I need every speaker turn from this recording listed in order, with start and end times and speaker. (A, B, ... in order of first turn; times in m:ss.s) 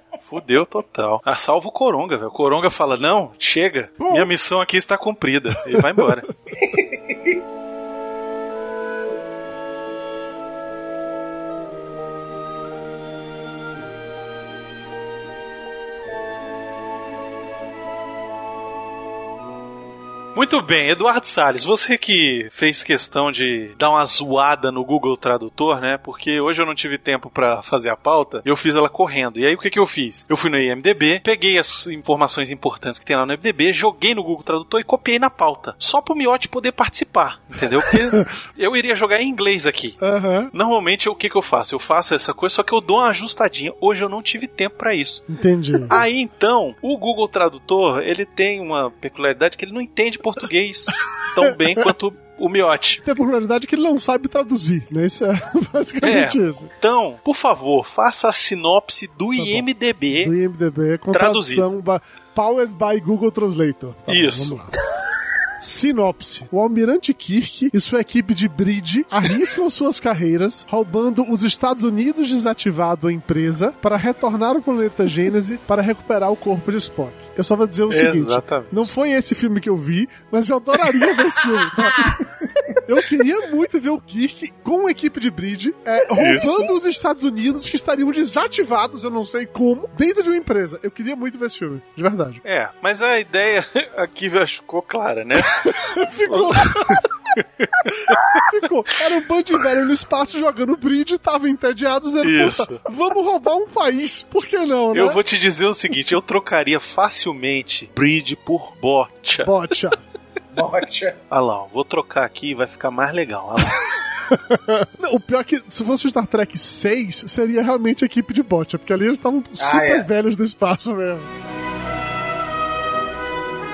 0:00.3-0:06.3 A
0:06.6-0:07.4 B
0:20.4-0:40.0 A
0:40.0-0:40.5 C
0:40.5-0:45.3 A
0:45.3-0:46.0 C
0:45.9-0:53.0 A
0:53.0-0:56.7 C
0:56.0-1:00.3 A
0:59.4-1:04.8 C
1:01.1-1:01.6 A
1:04.1-1:04.6 A
1:05.6-1:22.2 C
1:17.9-1:18.9 A
1:21.8-1:22.2 B
1:22.8-1:32.4 C
1:26.2-1:26.7 A
1:32.4-1:38.4 A
1:35.6-1:37.0 C
1:37.9-1:45.2 C
1:42.2-1:42.8 A
1:44.9-1:49.5 A
1:49.4-1:50.0 C
1:50.5-1:51.2 B
1:51.3-1:53.8 A
1:54.3-2:01.3 C
1:59.6-2:00.1 B